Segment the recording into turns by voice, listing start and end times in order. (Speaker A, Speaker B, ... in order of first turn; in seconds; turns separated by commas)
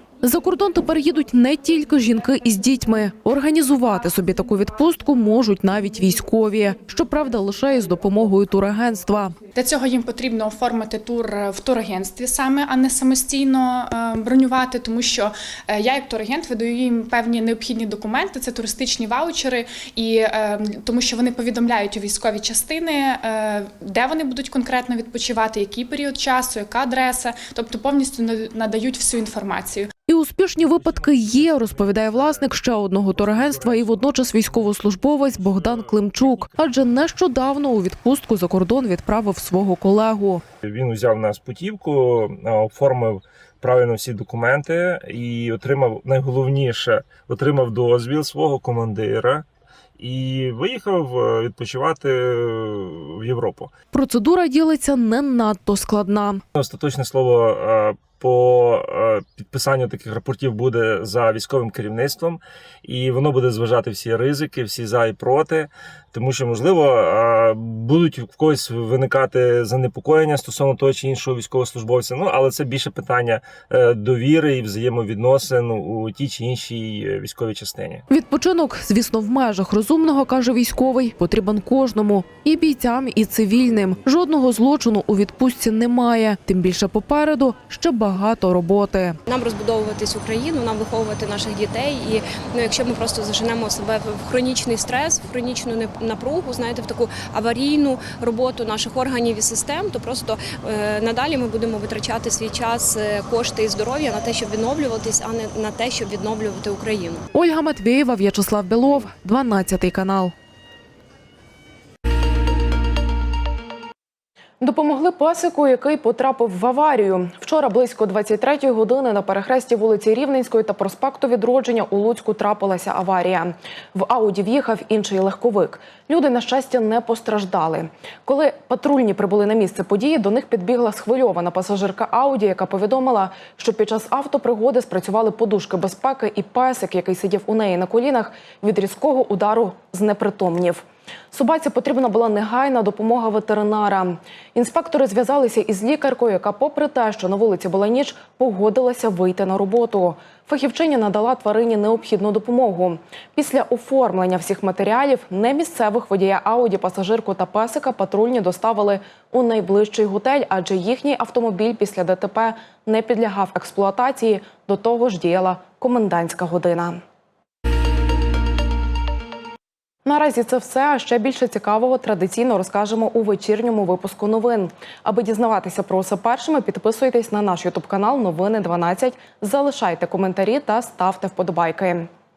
Speaker A: 0.2-9.3, Speaker B: 9.5-29.9, Speaker A: 30.1-40.4, Speaker C: 30.8-34.7, Speaker C: 35.4-36.5, Speaker C: 40.6-49.5, Speaker C: 50.0-53.7, Speaker A: 53.9-56.4, Speaker C: 56.5-78.0, Speaker A: 78.1-89.2, Speaker D: 89.3-107.2, Speaker A: 107.3-110.3, Speaker A: 114.6-167.0, Speaker A: 170.0-182.1